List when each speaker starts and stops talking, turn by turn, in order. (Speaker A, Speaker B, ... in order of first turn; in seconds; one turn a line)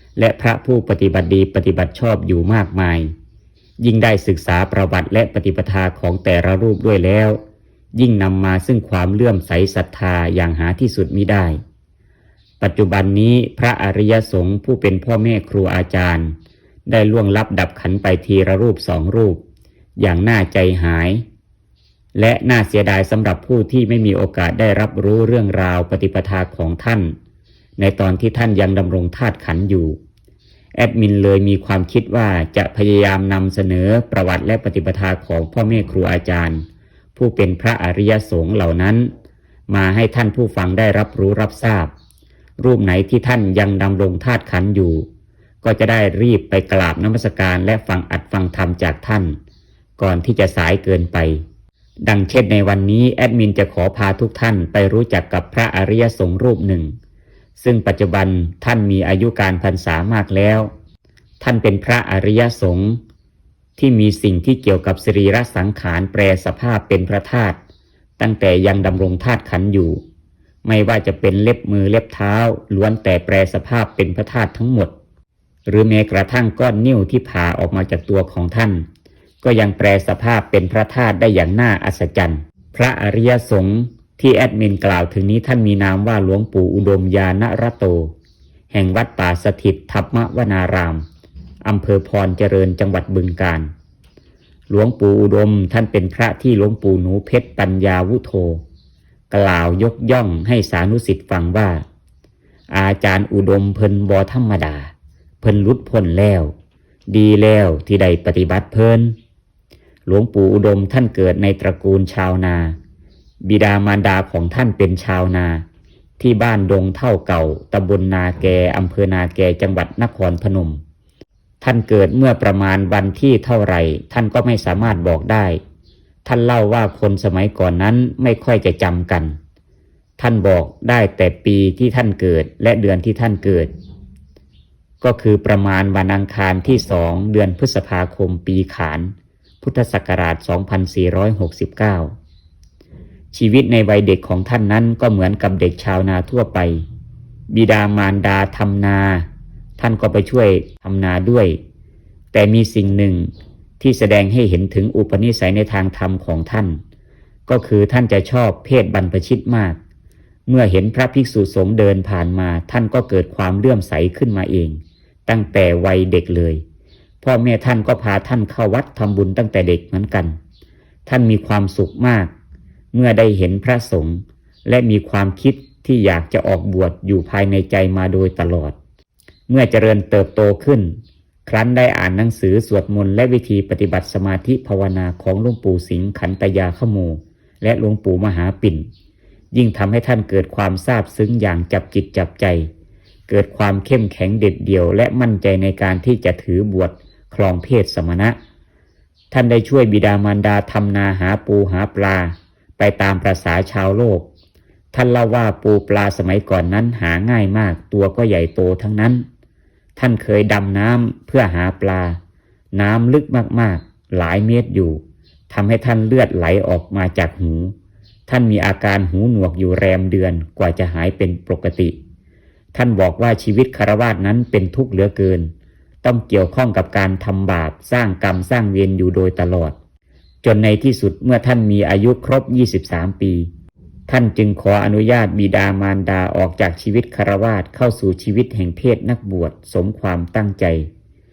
Speaker A: 0.2-3.1
Speaker A: 3.8-7.4
Speaker A: 8.0-11.6
Speaker A: 12.6-19.4
Speaker A: 20.0-21.2
Speaker A: 22.2-27.1
Speaker A: 27.8-30.0
Speaker A: 30.8-39.1
Speaker A: 39.7-41.9
Speaker A: 42.6-45.1
Speaker A: 45.6-49.4
Speaker A: 50.0-51.4
Speaker A: 52.0-57.0
Speaker A: 57.6-60.7
Speaker A: 61.4-63.0
Speaker A: 63.8-67.6
Speaker A: 68.2-70.0
Speaker A: 70.7-74.9
Speaker A: 75.7-78.9
Speaker A: 79.4-88.1
Speaker A: 88.7-91.0
Speaker A: 91.6-93.7
Speaker A: 94.7-98.6
Speaker A: 99.3-101.8
Speaker A: 102.7-106.5
Speaker A: 107.1-109.2
Speaker A: 110.1-112.8
Speaker A: 113.5-115.7
Speaker A: 116.2-120.8
Speaker A: 121.6-125.6
Speaker A: 126.2-129.4
Speaker A: 130.2-133.7
Speaker A: 135.0-142.1
Speaker A: 143.3-146.8
Speaker A: 147.5-151.6
Speaker A: 152.3-156.8
Speaker A: 157.5-159.8
Speaker A: 160.5-166.6
Speaker A: 167.2-170.4
Speaker A: 171.1-172.3
Speaker A: 172.9-178.8
Speaker A: 179.5-188.9
Speaker A: 189.5-192.7
Speaker A: 193.3-198.4
Speaker A: 199.3-204.3
Speaker A: 204.9-209.2
Speaker A: 210.0-212.2
Speaker A: 212.7-217.8
Speaker A: 218.3-221.9
Speaker A: 222.7-225.5
Speaker A: 226.0-229.8
Speaker A: 230.4-233.5
Speaker A: 234.1-240.9